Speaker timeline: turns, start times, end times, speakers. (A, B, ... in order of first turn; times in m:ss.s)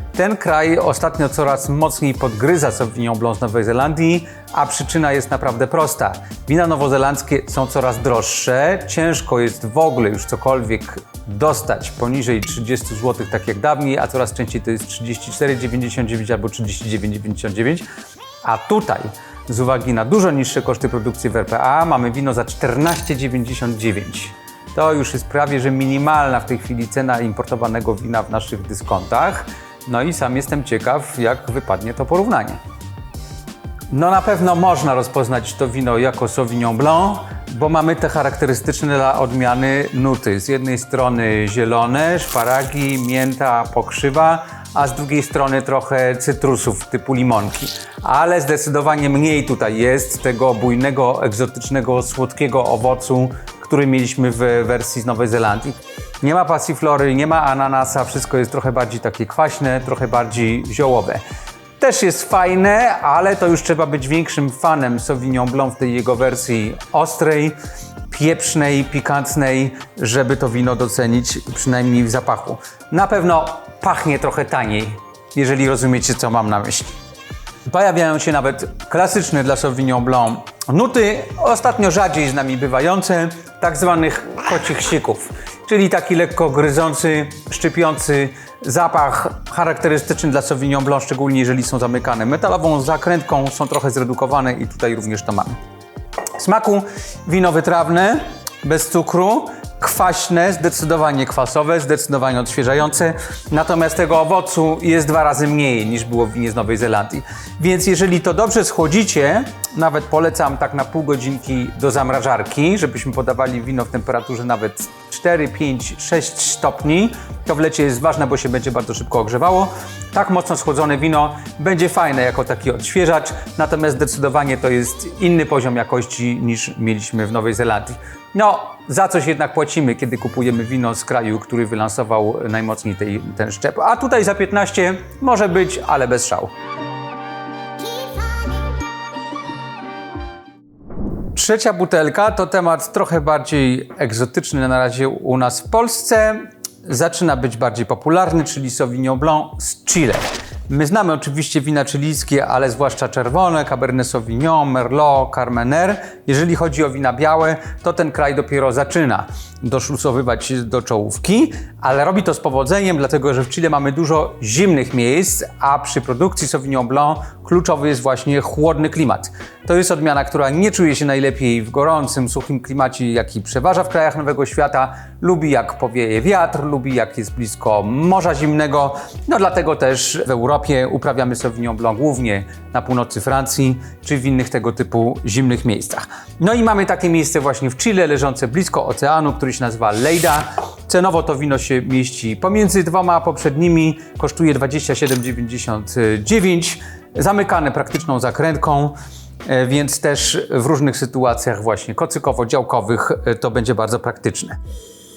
0:00.1-0:17.9 A
0:18.4-0:32.6 A
0:33.9-1:01.2 A
1:01.8-1:07.6 A
1:08.1-1:16.9 A
1:17.7-1:35.6 A
1:36.4-2:16.5 A
2:21.4-3:24.6 A